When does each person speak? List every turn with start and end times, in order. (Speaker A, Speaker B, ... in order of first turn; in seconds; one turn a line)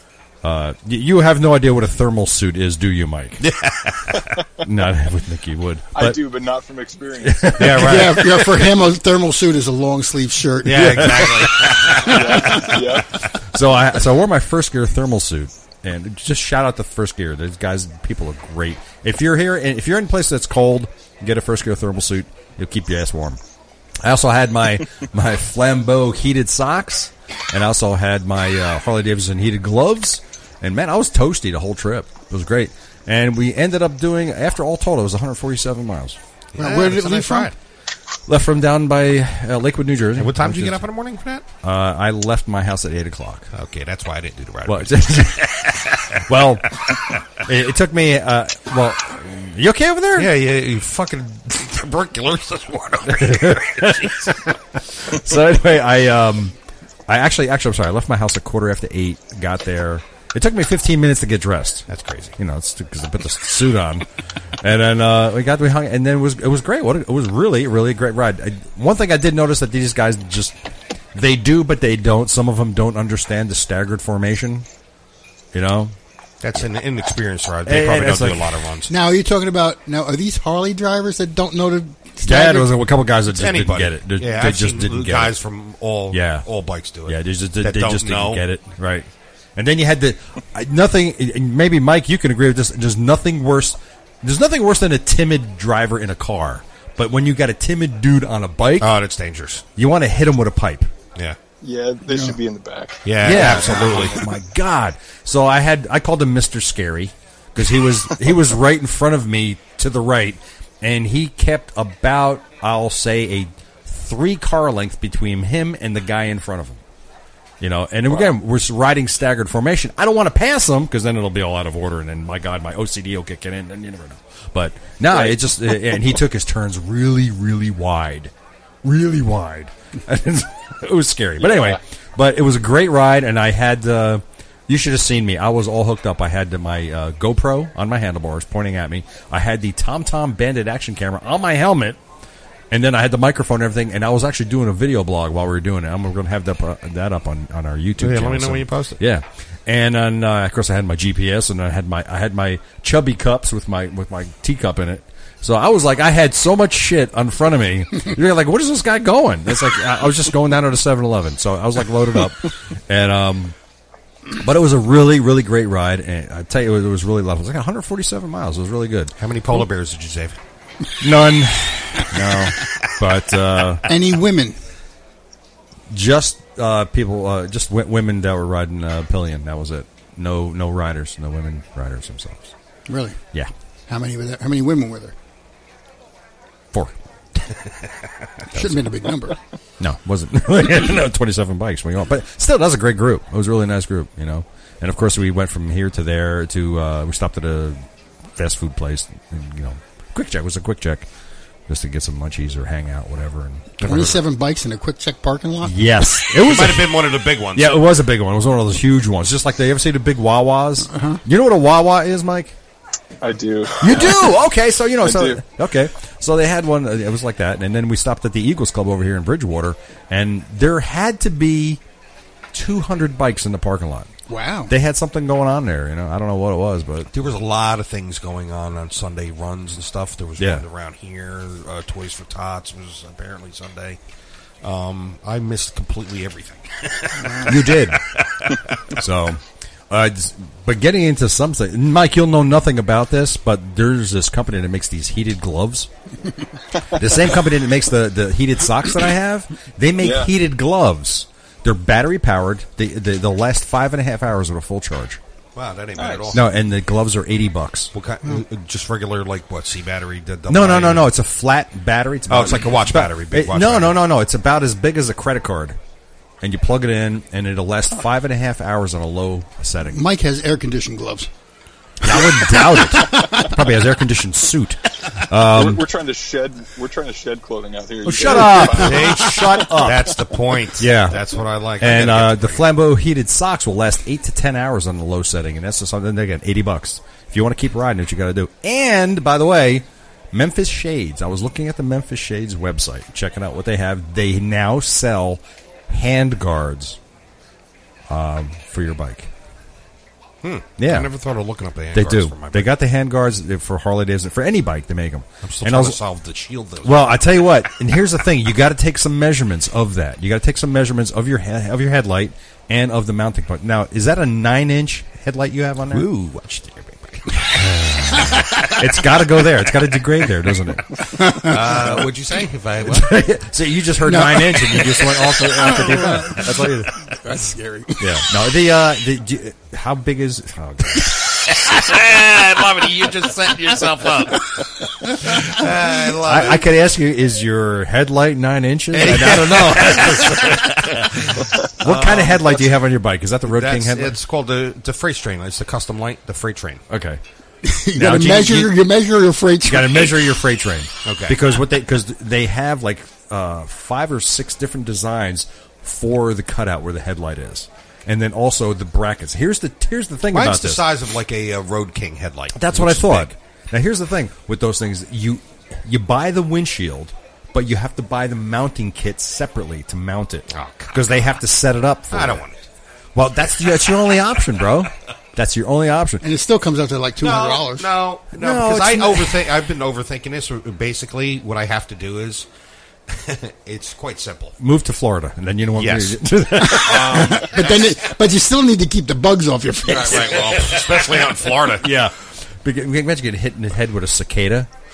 Speaker A: 0.4-3.4
Speaker B: 3.4-4.4
Speaker A: 4.6-6.2
Speaker C: 5.9-7.6
Speaker A: 7.2-8.7
Speaker B: 7.5-8.5
Speaker D: 7.6-11.4
Speaker B: 10.6-12.7
Speaker A: 10.8-12.7
Speaker C: 12.0-13.1
Speaker A: 13.4-23.4
Speaker A: 24.0-36.2
Speaker B: 36.5-37.5
Speaker D: 36.6-37.5
Speaker A: 38.3-40.9
Speaker B: 40.1-41.4
Speaker A: 41.6-43.5
Speaker B: 43.5-46.2
Speaker A: 44.6-45.5
Speaker A: 46.2-46.8
Speaker B: 46.8-47.2
Speaker A: 47.4-50.3
Speaker B: 50.1-54.6
Speaker A: 53.0-56.5
Speaker A: 57.1-61.9
Speaker B: 61.9-62.4
Speaker A: 62.4-64.0
Speaker A: 64.6-70.6
Speaker A: 71.1-74.7
Speaker A: 75.5-75.9
Speaker B: 76.4-78.9
Speaker A: 77.6-78.6
Speaker D: 78.9-82.7
Speaker A: 82.2-85.3
Speaker B: 83.3-88.4
Speaker A: 86.1-86.5
Speaker A: 87.0-99.0
Speaker B: 98.8-99.6
Speaker A: 99.8-100.9
Speaker C: 101.6-103.6
Speaker D: 102.1-102.3
Speaker B: 103.0-104.2
Speaker A: 103.2-116.8
Speaker A: 117.6-128.3
Speaker A: 128.8-142.0
Speaker A: 142.7-163.5
Speaker B: 148.0-149.0
Speaker A: 164.4-169.1
Speaker B: 169.2-170.4
Speaker A: 171.0-173.8
Speaker D: 173.9-174.6
Speaker A: 175.9-182.5
Speaker D: 182.9-183.2
Speaker D: 183.9-185.1
Speaker B: 187.5-187.9
Speaker D: 188.5-189.4
Speaker A: 189.8-197.8
Speaker A: 198.3-201.1
Speaker A: 201.7-203.8
Speaker B: 203.8-204.2
Speaker D: 203.8-205.8
Speaker A: 205.6-212.6
Speaker B: 206.4-207.7
Speaker D: 210.9-211.2
Speaker C: 213.2-214.4
Speaker A: 213.8-221.8
Speaker C: 215.0-215.4
Speaker A: 222.5-224.1
Speaker D: 224.3-224.7
Speaker A: 224.7-227.1
Speaker B: 227.1-234.0
Speaker A: 230.4-230.6
Speaker B: 234.6-239.0
Speaker A: 237.4-238.0
Speaker A: 238.9-245.9
Speaker A: 246.9-255.2
Speaker C: 250.0-250.3
Speaker B: 255.5-256.4
Speaker C: 255.9-256.4
Speaker A: 256.3-257.9
Speaker B: 257.9-261.1
Speaker A: 260.5-265.8
Speaker B: 262.3-264.0
Speaker A: 266.4-270.0
Speaker D: 269.8-271.3
Speaker A: 272.0-275.8
Speaker D: 272.1-273.5
Speaker C: 275.5-279.5
Speaker A: 278.0-280.2
Speaker B: 278.4-282.7
Speaker A: 280.8-297.0
Speaker A: 298.1-299.3
Speaker B: 300.4-302.7
Speaker A: 300.8-301.1
Speaker A: 301.9-306.0
Speaker B: 305.4-307.1
Speaker A: 306.8-316.1
Speaker B: 315.9-317.4
Speaker A: 317.3-320.9
Speaker D: 321.1-321.5
Speaker B: 321.4-323.1
Speaker A: 321.6-322.1
Speaker A: 322.8-327.0
Speaker D: 324.0-328.2
Speaker A: 328.0-331.1
Speaker B: 331.0-336.6
Speaker A: 336.1-344.2
Speaker B: 338.9-342.7
Speaker B: 343.4-346.8
Speaker A: 346.9-347.2
Speaker D: 347.6-350.2
Speaker A: 347.9-348.8
Speaker A: 349.6-360.9
Speaker B: 351.0-351.4
Speaker B: 360.3-363.3
Speaker A: 362.5-372.4
Speaker B: 370.5-371.1
Speaker B: 372.1-372.6
Speaker A: 373.1-376.2
Speaker B: 373.6-373.9
Speaker D: 376.2-377.9
Speaker B: 377.2-382.5
Speaker A: 378.3-379.5
Speaker B: 383.1-384.6
Speaker A: 384.6-387.5
Speaker B: 385.8-387.9
Speaker D: 386.6-390.4
Speaker B: 389.9-391.9
Speaker A: 390.5-391.0
Speaker A: 391.7-394.7